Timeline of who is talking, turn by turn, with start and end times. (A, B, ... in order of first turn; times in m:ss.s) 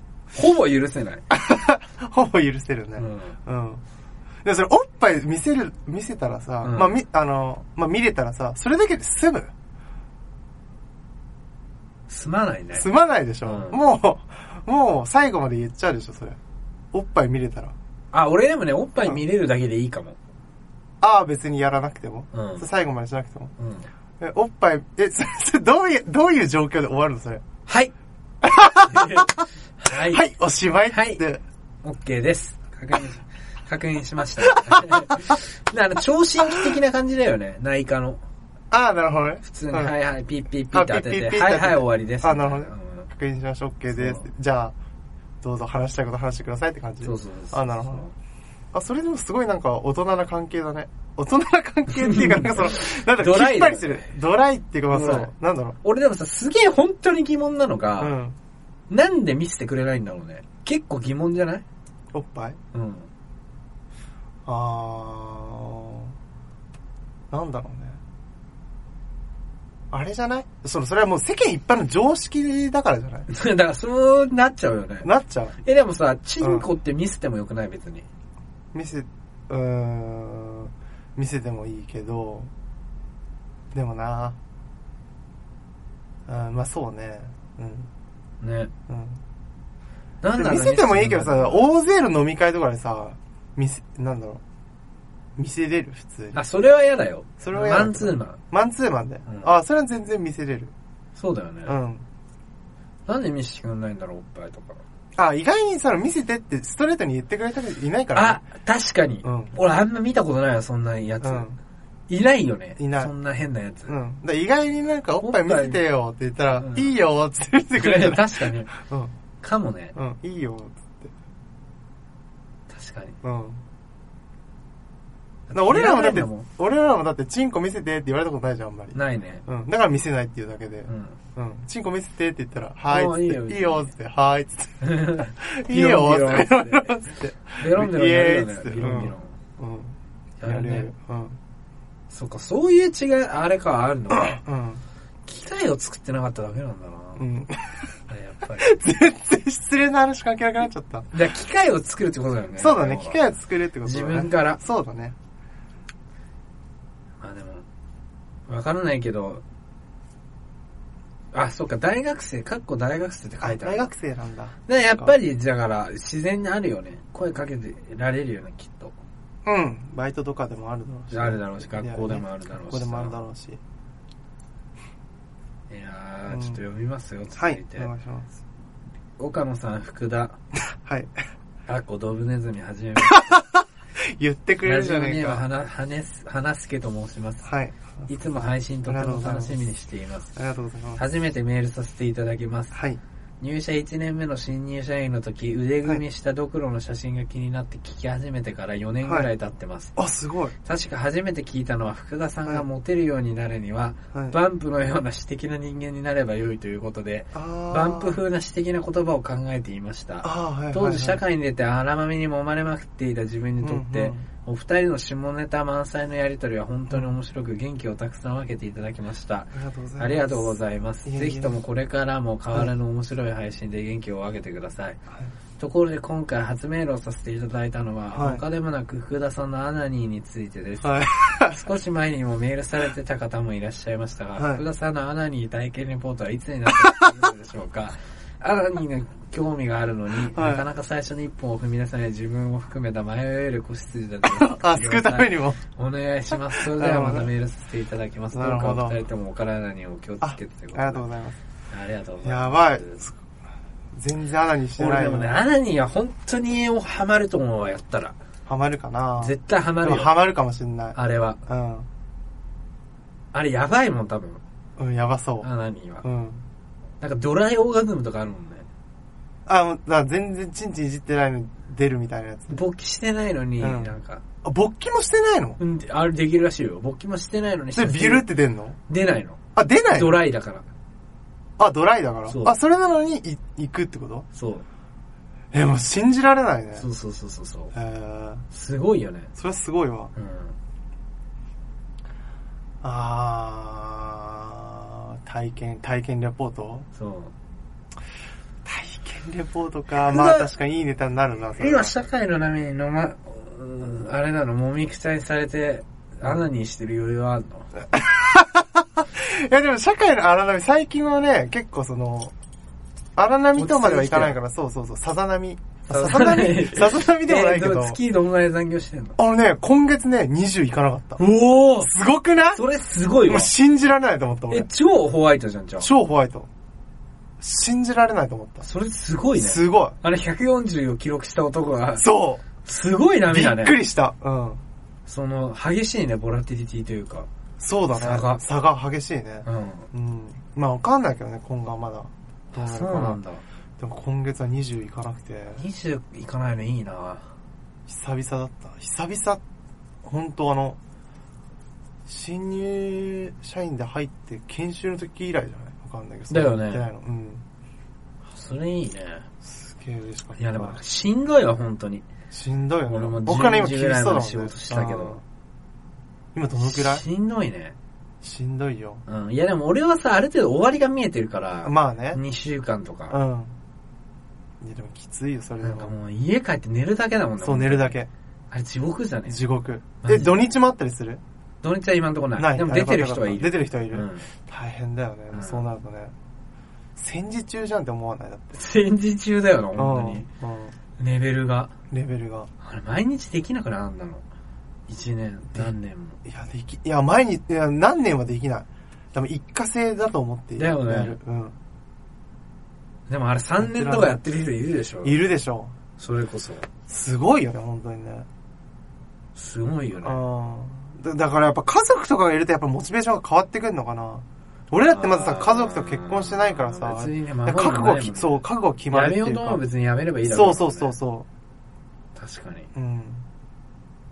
0:00.3-0:01.2 A
0:01.3-0:03.8 B
0:03.0-0:03.4 A
0:04.4-0:09.5 B
0:06.6-0:07.0 A
0:12.1-0:12.8 A
0:12.7-0:16.4 B
0:13.4-0:13.8 A
0:16.9-0:17.7 B
0:18.1-0:20.2 A
0:21.0-0:23.5 B
0:22.3-0:22.6 A
0:23.6-0:23.9 A
0:24.2-0:27.4 B
0:27.7-0:27.9 A
0:28.4-0:29.3 B
0:28.9-0:30.2 A
0:29.9-0:31.4 B
0:30.9-0:31.2 A
0:31.8-0:38.2 A
0:34.6-0:35.0 B
0:36.5-0:36.8 B
0:38.7-0:40.0 B
0:39.4-0:43.1 A
0:40.7-0:44.7 B
0:43.9-0:44.2 A
0:45.4-0:48.1 B
0:47.0-0:48.1 A
0:48.7-0:55.8 B
0:51.9-0:54.1 A
0:54.9-0:55.3 A
0:55.8-0:58.1 A
0:58.0-0:58.4 B
0:58.9-1:01.6 A
1:02.1-1:02.6 B
1:02.7-1:03.1 A
1:04.4-1:06.1 B
1:07.3-1:08.0 B
1:09.9-1:13.3 B
1:13.3-1:15.1 A
1:15.0-1:15.6 B
1:15.6-1:18.0 A
1:16.4-1:16.7 B
1:18.7-1:22.5 B
1:23.7-1:24.4 B
1:26.2-1:27.9 B
1:28.4-1:28.7 A
1:28.9-1:29.2 B
1:30.2-1:31.7 A
1:30.3-1:34.4 B
1:35.4-1:36.4 B
1:36.3-1:38.4 A
1:37.4-1:40.7 B
1:41.1-1:41.7 A
1:41.6-1:42.0 B
1:43.1-1:44.8 A
1:45.2-1:48.4 B
1:48.1-1:51.5 A
1:49.2-1:49.6 B
1:51.2-1:51.6 B
1:52.1-1:53.9 A
1:52.8-1:53.1 B
1:53.9-1:59.1 B
1:55.2-1:55.8 A
1:56.5-1:56.9 A
1:57.8-1:58.7 A
1:59.4-1:59.9 A
1:59.9-2:01.1 B
2:02.7-2:03.2 A
2:03.2-2:03.6 B
2:05.5-2:06.4 A
2:05.5-2:14.8 B
2:08.9-2:09.4 A
2:10.9-2:11.2 A
2:12.9-2:13.9 A
2:14.8-2:17.0 A
2:15.4-2:21.4 B
2:17.6-2:19.3 A
2:20.4-2:20.9 A
2:22.1-2:24.4 A
2:24.1-2:24.8 B
2:25.2-2:27.2 A
2:27.2-2:27.9 B
2:28.1-2:28.8 A
2:28.5-2:31.1 B
2:31.1-2:33.2 A
2:32.6-2:35.2 B
2:33.8-2:34.6 A
2:37.2-2:37.6 A
2:38.5-2:39.4 A
2:41.3-2:43.9 A
2:43.4-2:45.2 B
2:44.7-2:48.9 A
2:49.4-2:53.6 B
2:51.1-2:53.2 A
2:55.7-2:57.9 A
2:56.3-2:56.6 B
2:57.4-2:58.3 B
2:59.2-3:00.4 A
3:00.8-3:01.1 B
3:01.6-3:03.4 A
3:03.0-3:05.4 B
3:04.6-3:07.5 A
3:07.4-3:09.6 B
3:08.1-3:10.3 A
3:10.3-3:11.0 B
3:11.0-3:12.8 A
3:12.7-3:13.0 B
3:13.4-3:19.9 A
3:19.0-3:19.3 B
3:20.0-3:20.5 B
3:20.6-3:45.0 A
3:24.1-3:24.4 B
3:27.3-3:28.2 B
3:30.2-3:31.2 B
3:33.6-3:34.2 B
3:36.9-3:37.1 B
3:39.5-3:41.6 B
3:45.6-4:11.0 A
3:48.1-3:48.4 B
3:50.8-3:51.7 B
3:54.4-3:54.6 B
4:00.3-4:00.6 B
4:04.2-4:05.6 B
4:06.3-4:07.3 B
4:08.3-4:09.0 B
4:10.2-4:11.4 B
4:11.7-4:13.0 A
4:12.2-4:13.1 B
4:13.9-4:15.4 B
4:14.8-4:18.2 A
4:18.4-4:21.9 B
4:19.2-4:20.1 A
4:21.0-4:21.4 A
4:23.3-4:24.4 A
4:24.8-4:25.5 B
4:25.4-4:26.0 A
4:26.0-4:26.4 B
4:27.0-4:28.7 A
4:29.4-4:32.6 B
4:32.5-4:34.2 A
4:33.6-4:35.6 B
4:35.6-4:38.3 A
4:37.7-4:38.8 B
4:38.9-4:39.4 A
4:39.5-4:40.2 B
4:39.9-4:40.6 A
4:41.6-4:44.2 B
4:42.3-4:42.5 A
4:44.3-4:44.6 A
4:45.5-4:46.9 B
4:46.8-4:47.7 A
4:47.7-4:48.4 B
4:48.5-4:49.3 A
4:49.4-4:50.1 B
4:50.2-4:50.6 A
4:52.8-4:56.9 B
4:56.9-4:57.3 A
4:58.6-5:01.9 B
4:59.9-5:00.5 A
5:01.6-5:07.7 A
5:07.9-5:12.3 B
5:13.2-5:18.0 B
5:13.6-5:14.4 A
5:15.8-5:19.2 A
5:19.2-5:21.2 B
5:21.2-5:21.9 A
5:21.8-5:22.6 B
5:22.5-5:23.5 A
5:23.2-5:24.7 B
5:24.5-5:25.9 A
5:25.8-5:26.5 B
5:27.4-5:28.7 B
5:28.6-5:32.0 A
5:29.4-5:30.0 B
5:32.0-5:32.4 B
5:32.6-5:33.8 A
5:33.3-5:34.6 B
5:35.0-5:37.3 A
5:37.6-5:43.2 B
5:37.9-5:38.4 A
5:39.4-5:39.9 A
5:42.5-5:43.4 A
5:43.8-5:45.7 B
5:45.5-5:47.3 A
5:47.9-5:49.4 B
5:50.0-5:50.8 B
5:52.1-5:57.4 B
5:56.3-5:56.8 A
5:58.3-5:59.2 A
5:59.4-6:00.8 B
6:00.4-6:02.0 A
6:02.3-6:05.2 B
6:02.8-6:05.2 A
6:06.3-6:07.0 B
6:06.6-6:07.8 A
6:08.2-6:09.0 B
6:09.1-6:13.2 A
6:11.6-6:12.2 B
6:13.1-6:13.6 B
6:14.6-6:15.9 B
6:15.6-6:18.0 A
6:17.4-6:18.1 B
6:18.5-6:19.4 A
6:19.3-6:21.2 B
6:20.0-6:20.3 A
6:21.6-6:24.3 A
6:22.4-6:26.1 B
6:25.3-6:25.6 A
6:27.0-6:28.6 B
6:28.5-6:30.2 A
6:29.8-6:30.7 B
6:31.0-6:31.7 A
6:31.9-6:32.5 B
6:32.6-6:34.2 A
6:34.9-6:36.2 A
6:36.2-6:41.6 B
6:40.6-6:41.2 A
6:43.1-6:45.2 A
6:43.6-6:44.2 B
6:45.0-6:45.7 B
6:46.0-6:46.7 A
6:46.9-6:48.3 B
6:49.4-6:50.2 A
6:50.0-6:59.6 B
6:54.8-7:00.9 A
7:00.2-7:01.3 B
7:02.2-7:02.7 A
7:02.7-7:03.2 B